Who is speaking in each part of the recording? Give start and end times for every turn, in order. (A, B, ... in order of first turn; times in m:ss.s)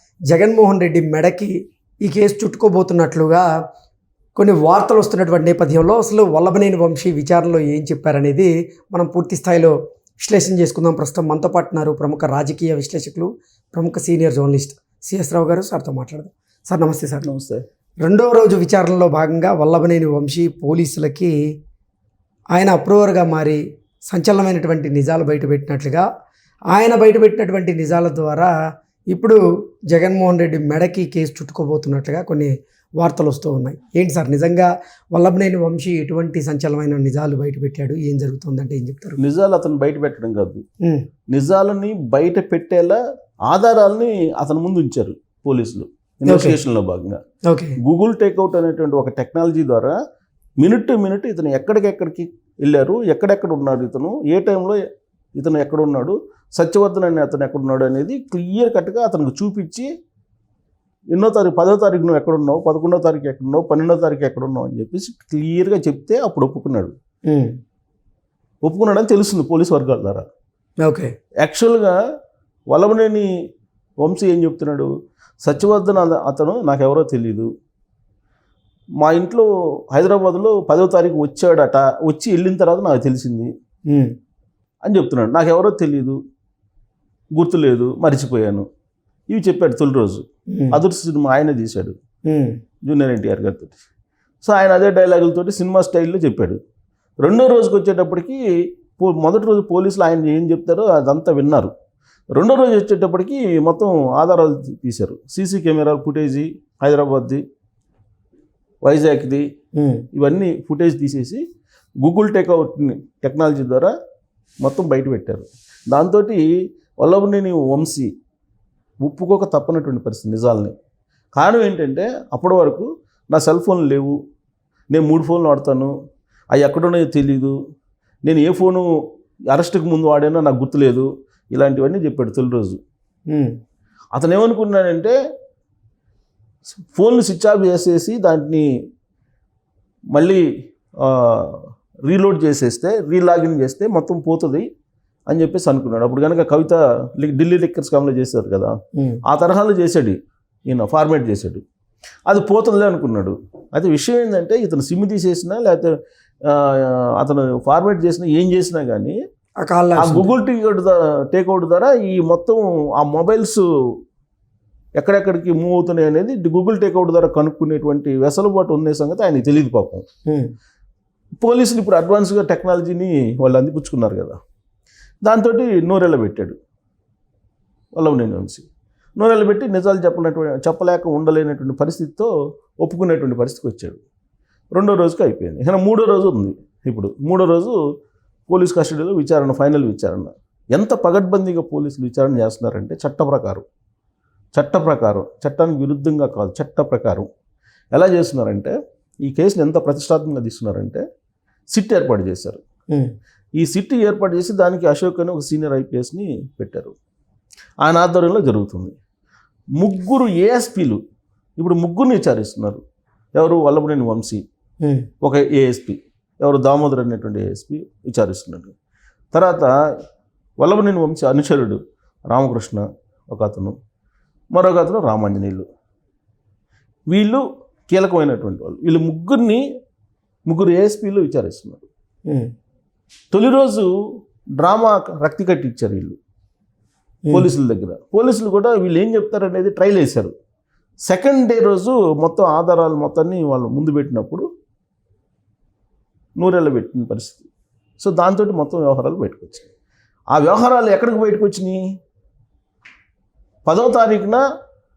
0:00.3-0:01.5 A
0:02.0-0:03.5 A
0:04.4-0:17.3 A
0:17.2-0:17.6 B
0:18.0-0:21.3 A
0:22.5-0:23.6 A
0:24.1-0:26.0 A
0:26.7-0:28.5 A
0:29.1-0:29.4 A
0:29.9-0:32.5 A
0:33.0-0:39.2 A
0:39.2-0:40.6 B
0:41.3-0:47.2 B
0:46.3-0:46.6 A
0:47.5-0:47.8 A
0:47.8-0:50.0 B
0:50.6-0:54.8 B
0:55.4-0:59.9 B
1:01.1-1:06.9 B
1:08.6-1:10.3 B
1:10.8-1:11.1 A
1:11.4-1:12.0 B
1:12.7-1:13.3 B
1:14.0-1:17.5 B
1:19.0-1:23.5 B
1:24.8-1:26.2 B
1:27.3-1:28.7 B
1:29.3-1:32.0 B
1:32.3-1:32.5 A
1:32.8-1:33.8 B
1:34.4-1:36.6 B
1:37.2-1:41.7 B
1:42.3-1:47.4 B
1:48.8-1:49.4 B
1:49.8-1:50.0 A
1:50.1-1:51.4 B
1:52.0-1:53.9 B
1:54.6-1:56.5 B
1:57.0-1:58.1 B
1:59.0-2:00.8 B
2:01.3-2:04.2 B
2:04.9-2:05.9 B
2:06.5-2:07.5 B
2:08.2-2:08.9 B
2:09.5-2:12.8 B
2:14.1-2:15.2 B
2:16.9-2:18.7 B
2:20.1-2:20.4 B
2:21.0-2:24.7 B
2:25.3-2:28.7 B
2:29.0-2:29.2 A
2:29.2-2:31.6 B
2:32.3-2:35.9 B
2:36.4-2:39.2 B
2:39.6-2:40.3 A
2:40.0-2:43.6 B
2:45.0-2:50.1 B
2:51.4-2:54.4 B
2:55.2-2:56.6 B
2:57.9-2:58.7 B
2:59.2-3:04.0 B
3:04.7-3:07.8 B
3:08.5-3:13.7 B
3:14.5-3:17.3 B
3:17.9-3:21.0 B
3:21.7-3:22.6 B
3:23.6-3:26.9 B
3:27.8-3:28.9 B
3:29.8-3:31.0 B
3:31.6-3:32.8 B
3:33.4-3:34.4 B
3:35.2-3:38.7 B
3:39.3-3:39.7 B
3:40.6-3:43.8 B
3:44.5-3:45.7 B
3:47.1-3:49.6 B
3:50.5-3:51.9 B
3:53.3-3:53.9 B
3:54.6-3:56.2 B
3:57.3-4:00.3 B
4:01.1-4:04.4 B
4:06.4-4:07.5 B
4:08.0-4:09.7 B
4:10.3-4:11.8 B
4:13.7-4:14.4 B